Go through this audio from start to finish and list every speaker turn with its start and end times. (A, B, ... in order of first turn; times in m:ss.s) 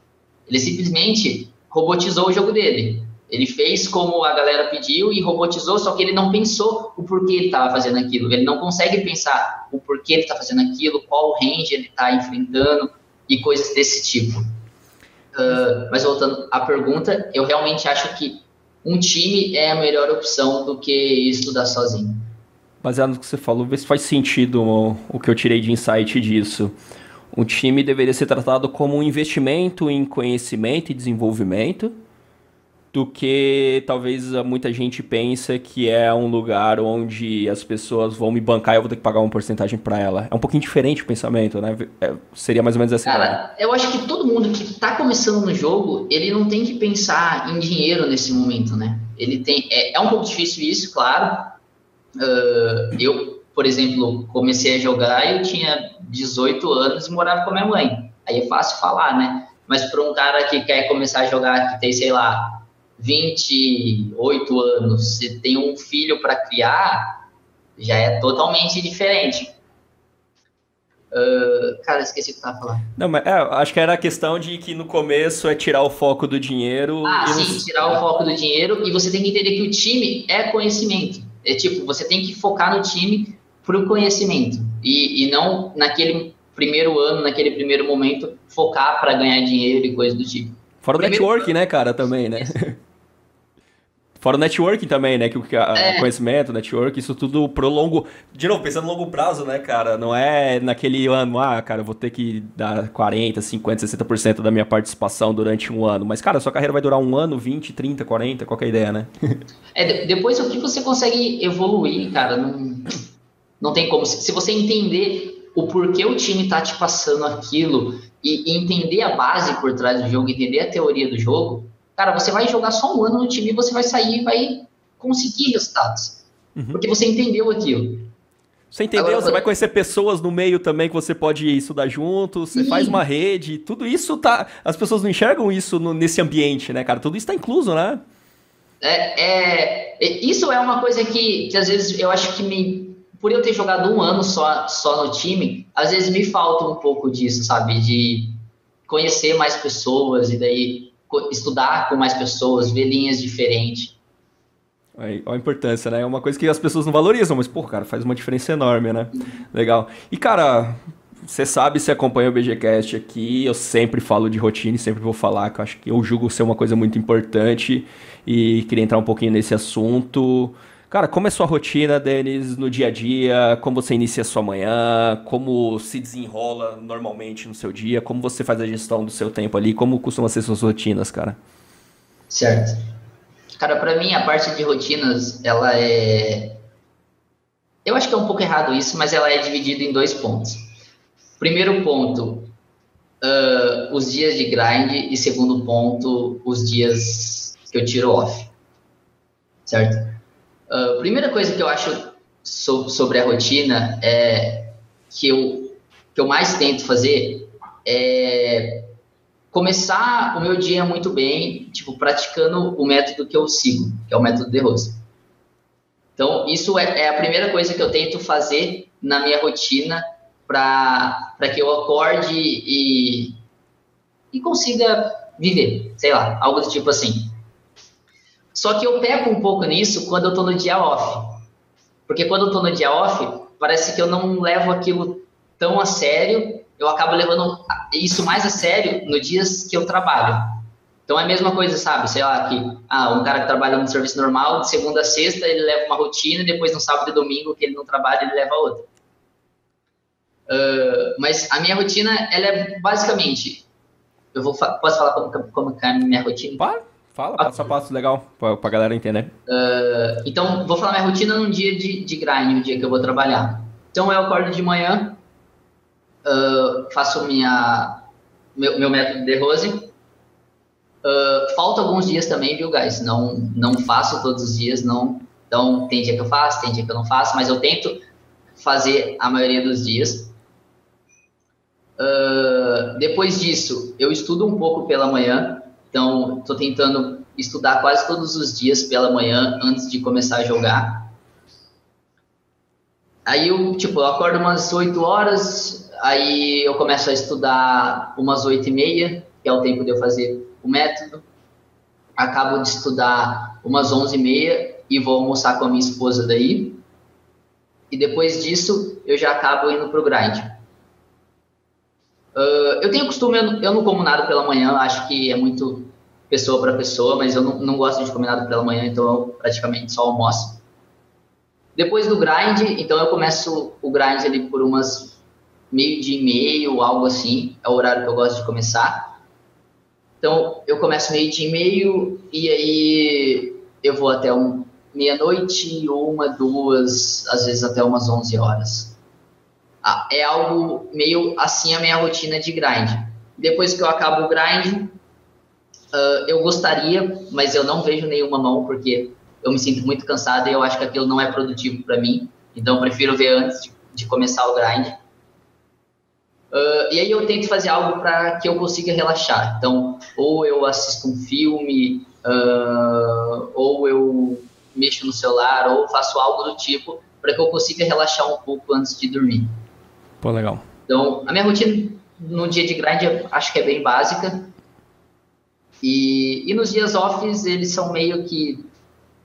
0:00.5-0:14.4 A
0:15.3-0:22.2 A
0:22.8-0:26.7 B
0:27.3-0:31.9 B
0:32.9-0:43.4 B
0:43.0-0:51.6 A
0:52.2-1:07.2 A
1:07.8-1:09.5 A
1:11.1-1:12.9 A
1:13.0-1:18.0 B
1:17.0-1:31.5 A
1:30.8-1:32.8 B
1:34.2-1:49.4 B
1:35.7-1:36.1 A
1:49.7-1:53.0 A
1:53.6-2:08.1 A
2:06.6-2:06.8 B
2:08.7-2:18.0 B
2:08.9-2:09.4 A
2:12.5-2:13.0 A
2:18.8-2:28.4 A
2:28.9-2:34.0 A
2:35.0-3:01.4 B
3:02.3-3:02.8 A
3:03.6-3:06.6 A
3:07.8-3:10.6 A
3:11.4-3:12.5 A
3:13.2-3:18.5 A
3:19.6-3:20.2 A
3:20.7-3:28.9 A
3:29.5-3:35.0 A
3:36.2-3:43.4 A
3:44.3-3:47.3 A
3:48.5-3:51.4 A
3:52.1-4:00.6 A
4:01.1-4:08.9 A
4:10.5-4:13.6 A
4:14.3-4:16.7 A
4:16.6-4:19.3 B
4:17.4-4:17.7 A
4:19.5-4:25.2 A
4:26.2-4:28.0 A
4:28.6-4:29.9 A
4:31.0-4:38.0 A
4:38.6-4:40.3 A
4:42.0-4:51.1 A
4:53.2-5:01.2 A
5:02.2-5:06.8 A
5:07.9-5:10.5 A
5:12.3-5:20.6 A
5:21.8-5:25.2 A
5:25.7-5:29.1 A
5:30.2-5:39.0 A
5:39.8-5:45.0 A
5:45.9-5:55.0 A
5:56.5-6:09.5 A
6:10.2-6:10.6 B
6:10.9-6:14.5 A
6:15.8-6:18.7 A